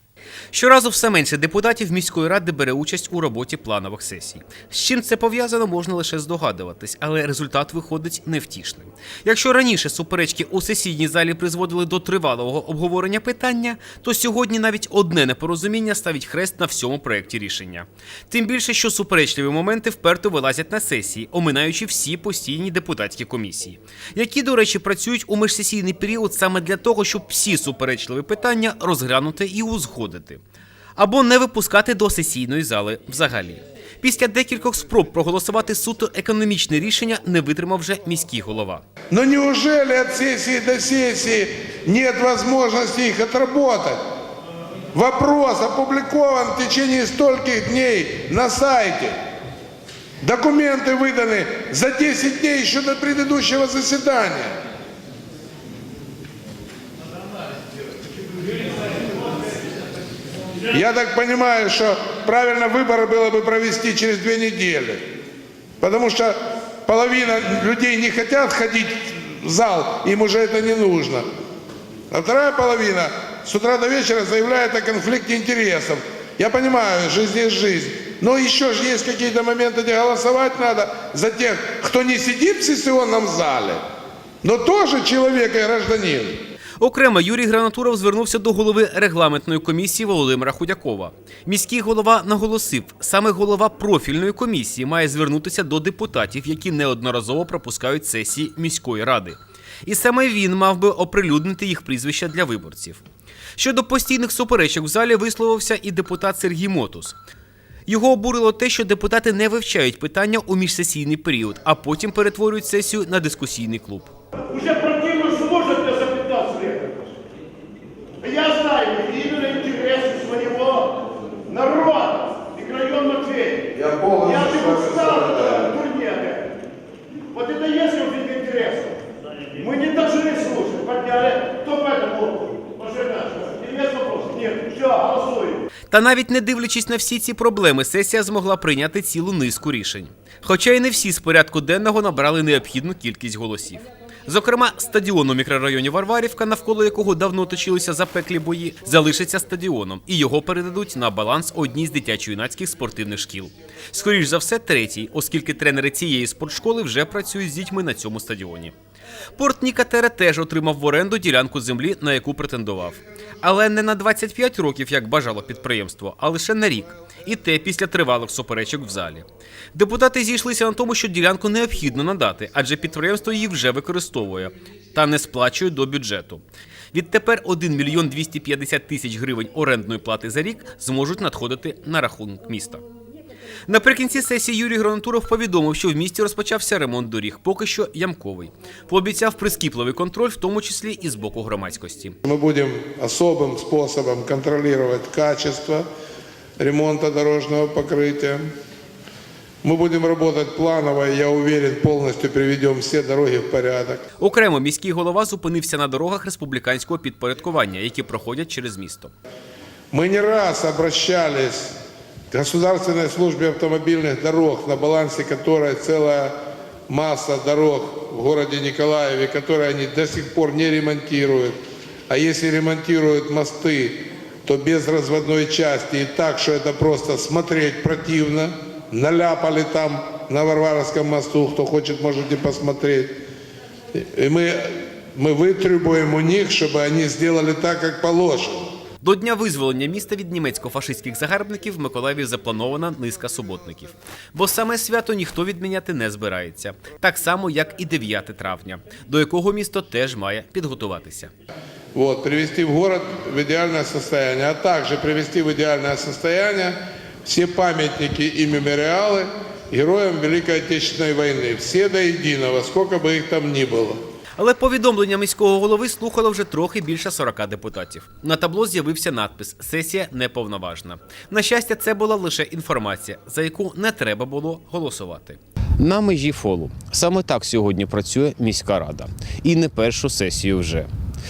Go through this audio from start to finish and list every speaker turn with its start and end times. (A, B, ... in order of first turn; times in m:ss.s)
0:00.5-0:30.4 A
0:31.0-0:38.8 A
0:39.1-0:44.0 B
0:44.9-0:49.1 B
0:50.2-0:54.5 B
1:00.7-1:05.0 B
1:05.8-1:11.2 B
1:12.1-1:23.8 B
1:24.4-1:26.4 B
1:26.8-1:43.0 A
1:43.6-1:47.2 A
1:47.9-1:54.1 A
1:54.5-1:57.0 C
1:58.2-2:01.0 C
2:01.5-2:03.7 C
2:03.7-2:05.8 B
2:04.4-2:04.9 C
2:05.7-2:06.4 C
2:07.3-2:09.0 C
2:09.5-2:15.6 C
2:15.9-2:38.7 A
2:39.4-3:02.8 A
3:03.7-3:12.2 A
3:12.2-3:15.8 B
3:16.6-3:18.5 B
3:19.6-3:24.0 B
3:24.2-3:29.1 A
3:29.9-3:31.7 B
3:32.3-3:36.3 B
3:36.9-3:41.6 B
3:42.1-3:53.2 B
3:53.9-3:58.7 B
3:59.0-4:11.3 A
4:11.9-4:24.0 B
4:24.4-4:40.9 A